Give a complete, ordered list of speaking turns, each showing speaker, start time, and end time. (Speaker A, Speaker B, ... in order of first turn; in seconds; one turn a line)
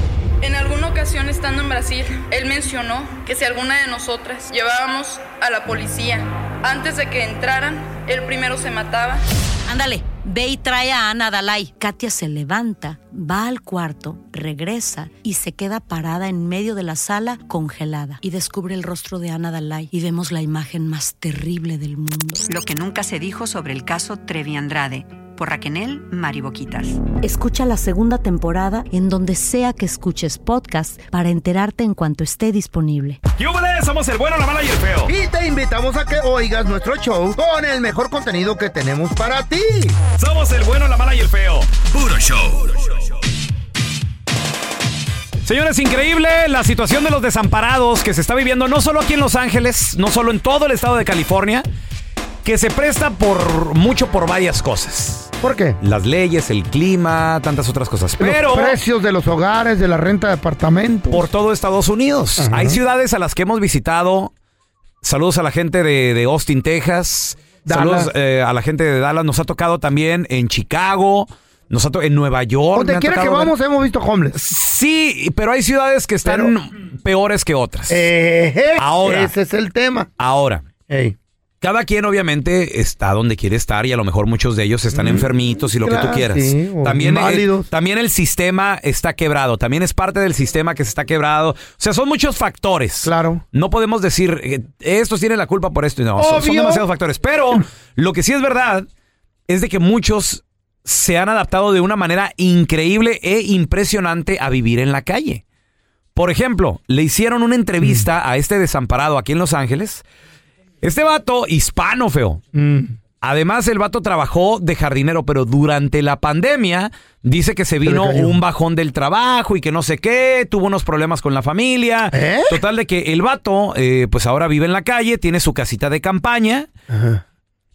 Speaker A: 0.4-9.2
Speaker B: 9.7-22.5
Speaker C: 22.5-27.1
Speaker B: 27.2-33.2
Speaker D: 33.4-35.1
Speaker E: 35.1-40.0
Speaker D: 40.1-43.0
Speaker D: 45.4-51.6
Speaker D: 52.5-58.8
Speaker E: 55.4-55.8
Speaker E: 58.2-61.3
Speaker D: 61.1-64.3
Speaker E: 62.4-62.8
Speaker D: 65.0-73.5
Speaker E: 67.7-68.1
Speaker E: 72.8-74.4
Speaker D: 74.3-78.1
Speaker E: 76.2-76.5
Speaker E: 77.9-80.1
Speaker D: 78.8-79.3
Speaker D: 80.2-80.7
Speaker E: 80.9-81.2
Speaker D: 81.6-98.9
Speaker E: 84.9-87.7
Speaker E: 93.0-93.4
Speaker E: 96.2-96.8
Speaker D: 99.5-105.4
Speaker D: 106.2-110.0
Speaker D: 110.8-112.4
Speaker E: 112.5-112.9
Speaker D: 113.2-126.7
Speaker E: 117.8-118.4
Speaker E: 122.1-122.6
Speaker E: 126.9-127.2